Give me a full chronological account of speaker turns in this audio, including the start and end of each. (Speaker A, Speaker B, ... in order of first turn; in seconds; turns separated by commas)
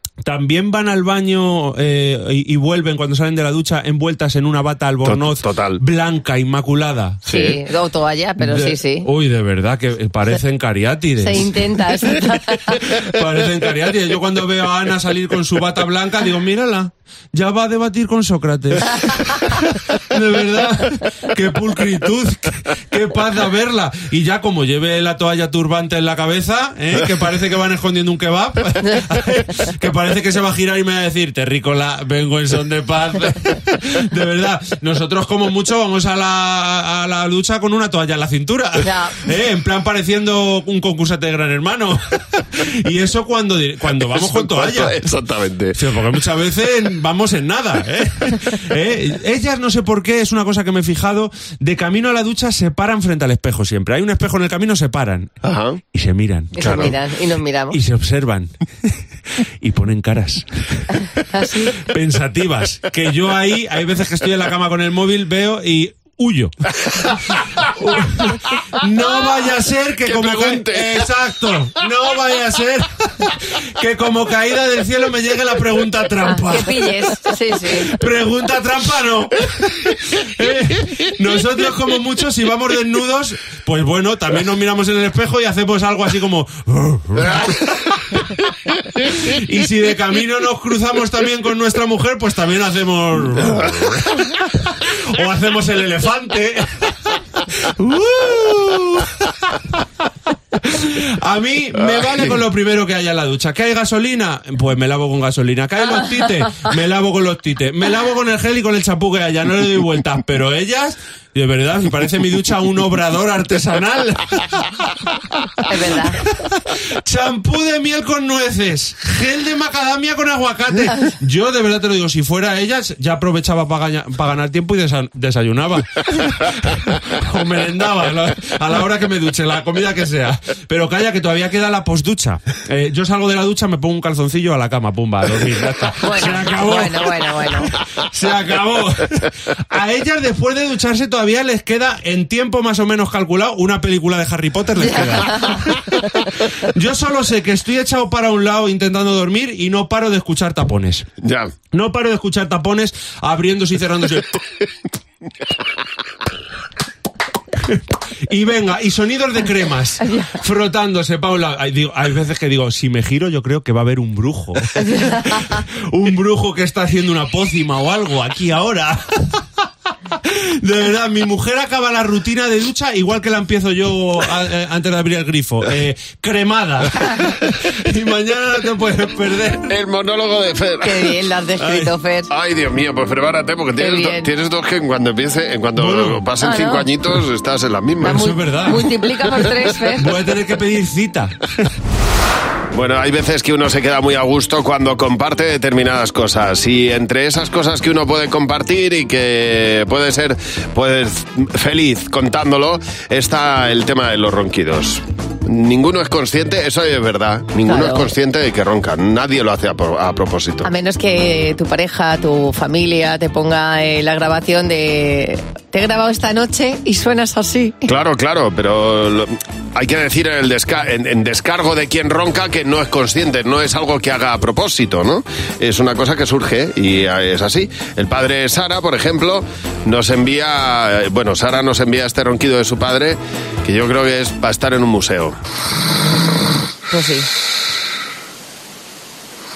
Speaker A: 0.2-7.2, Speaker B: 5.0-5.8, Speaker C: 7.3-9.1, Speaker B: 7.3-7.5, Speaker A: 8.4-11.6, Speaker C: 11.2-12.8, Speaker A: 12.9-45.0, Speaker C: 38.8-39.2, Speaker B: 43.9-45.8, Speaker A: 45.8-55.3, Speaker B: 55.4-55.8, Speaker A: 55.9-56.9, Speaker C: 56.5-57.8, Speaker B: 56.6-56.9, Speaker A: 57.7-59.0, Speaker A: 59.6-60.8, Speaker C: 61.3-61.7, Speaker A: 61.4-66.5, Speaker A: 67.6-76.9, Speaker B: 70.0-71.0, Speaker C: 76.3-77.9, Speaker A: 77.8-88.3, Speaker A: 89.0-99.6, Speaker A: 100.6-115.0, Speaker C: 115.7-116.2, Speaker A: 115.9-151.1, Speaker C: 136.0-137.7, Speaker C: 144.8-145.7, Speaker B: 151.2-151.5, Speaker A: 151.7-154.4, Speaker A: 157.6-169.4, Speaker A: 170.2-179.7, Speaker B: 179.7-181.1, Speaker C: 180.8-182.3, Speaker A: 181.6-181.9, Speaker B: 182.3-188.2, Speaker C: 183.8-184.3, Speaker A: 185.8-186.2, Speaker C: 186.4-186.9, Speaker A: 188.0-188.9, Speaker C: 188.0-190.1, Speaker A: 190.0-191.4, Speaker B: 192.7-210.7, Speaker C: 207.7-208.1, Speaker C: 210.6-217.9, Speaker B: 217.9-235.3, Speaker C: 236.9-237.3